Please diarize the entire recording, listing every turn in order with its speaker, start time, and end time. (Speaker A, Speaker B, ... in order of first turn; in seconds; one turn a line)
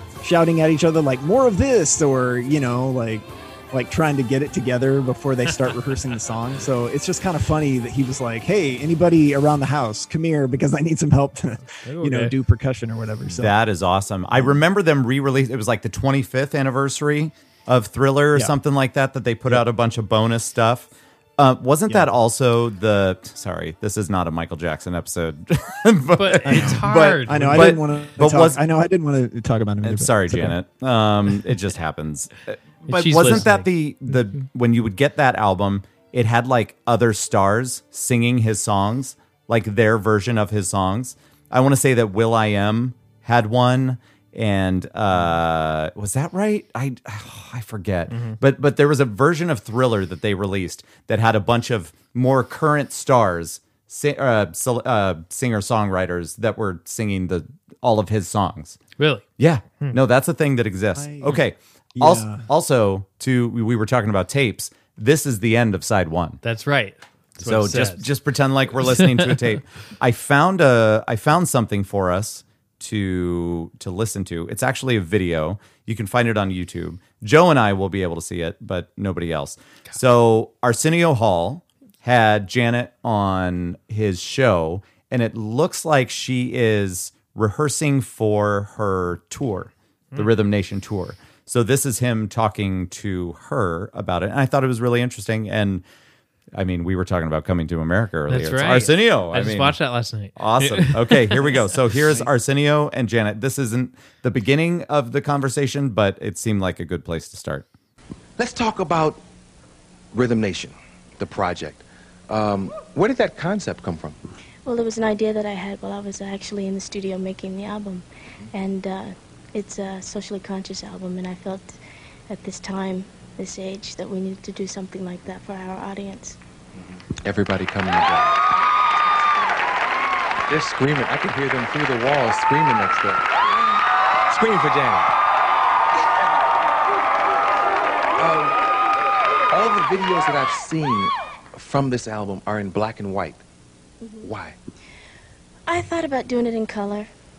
Speaker A: 0.2-13.6
Speaker B: 11.8-12.3
Speaker C: 13.4-28.6
Speaker A: 14.3-14.6
Speaker B: 26.2-27.7
Speaker A: 26.4-30.6
Speaker C: 29.8-58.8
Speaker B: 32.9-33.7
Speaker B: 48.1-48.4
Speaker B: 59.0-59.3
Speaker C: 59.4-66.4
Speaker A: 61.0-61.4
Speaker A: 62.0-62.5
Speaker B: 66.4-68.1
Speaker C: 67.4-95.8
Speaker B: 68.8-69.5
Speaker C: 96.5-99.8
Speaker B: 98.3-101.8
Speaker C: 100.4-107.7
Speaker D: 108.4-109.2
Speaker D: 110.1-114.2
Speaker E: 114.7-121.8
Speaker E: 122.3-126.4
Speaker D: 126.8-128.4
Speaker E: 129.1-129.6
Speaker D: 130.5-133.3
Speaker E: 133.5-133.8
Speaker D: 134.3-135.1
Speaker D: 138.2-138.6
Speaker D: 139.5-143.4
Speaker E: 144.0-144.3
Speaker D: 144.2-144.6
Speaker E: 145.7-147.1